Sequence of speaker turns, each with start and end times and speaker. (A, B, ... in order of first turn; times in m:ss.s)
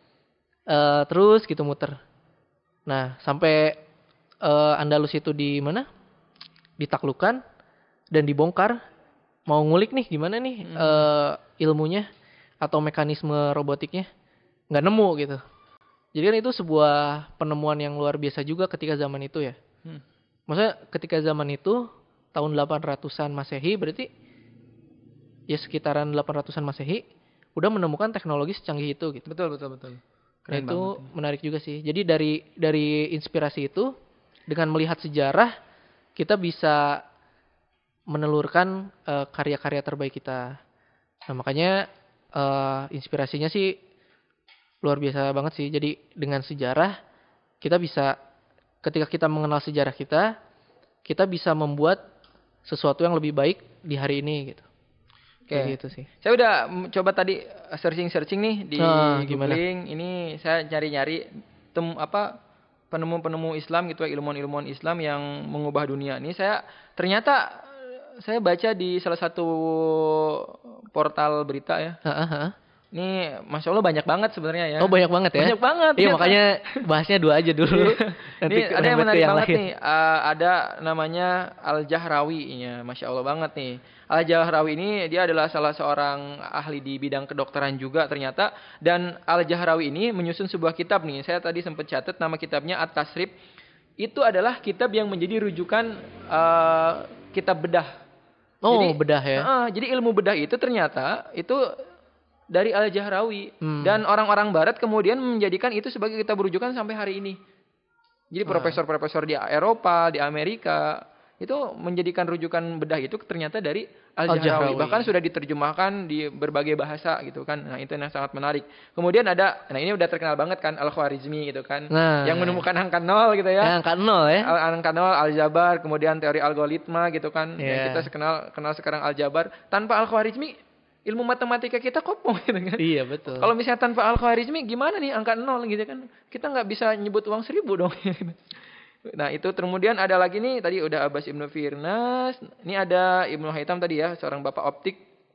0:00.7-0:02.0 A
0:02.9-0:03.8 A
0:04.4-0:05.8 A
0:06.8-0:07.4 A
0:08.1-0:08.8 A
0:09.5-0:12.1 A
0:10.6-0:11.1 B
0:12.6-0:14.1 A
0:14.7-0:15.4 A
0:16.1-0:19.6 A
0:20.5-0:24.1 A
0:25.5-0:27.0 A
0:27.6-0:29.2 A
0:29.3-0:31.1 B
0:30.5-0:33.9 A
0:34.5-0:35.5 A
0:36.2-0:37.0 A
0:38.1-0:40.6 A
0:41.3-0:43.7 A
0:44.8-0:46.9 A
0:47.6-0:48.1 A
0:48.8-0:50.3 A
0:51.0-0:52.0 A
0:52.6-0:54.6 A
0:55.5-1:02.3 B
0:55.5-0:56.1 A
0:58.8-0:59.6 A
1:02.9-1:12.0 B
1:12.0-1:12.5 A
1:12.9-1:16.4 B
1:14.8-1:19.6 A
1:17.7-1:33.3 B
1:34.0-1:37.9 B
1:38.6-1:39.5 A
1:38.7-1:41.6 B
1:42.5-1:47.4 B
1:43.6-1:44.0 A
1:48.3-2:03.8 B
1:48.5-1:48.8 A
1:54.3-1:55.1 A
2:01.9-2:02.6 A
2:03.6-2:04.5 A
2:04.4-2:18.4 B
2:07.6-2:08.1 A
2:12.8-2:13.5 A
2:19.1-2:25.0 B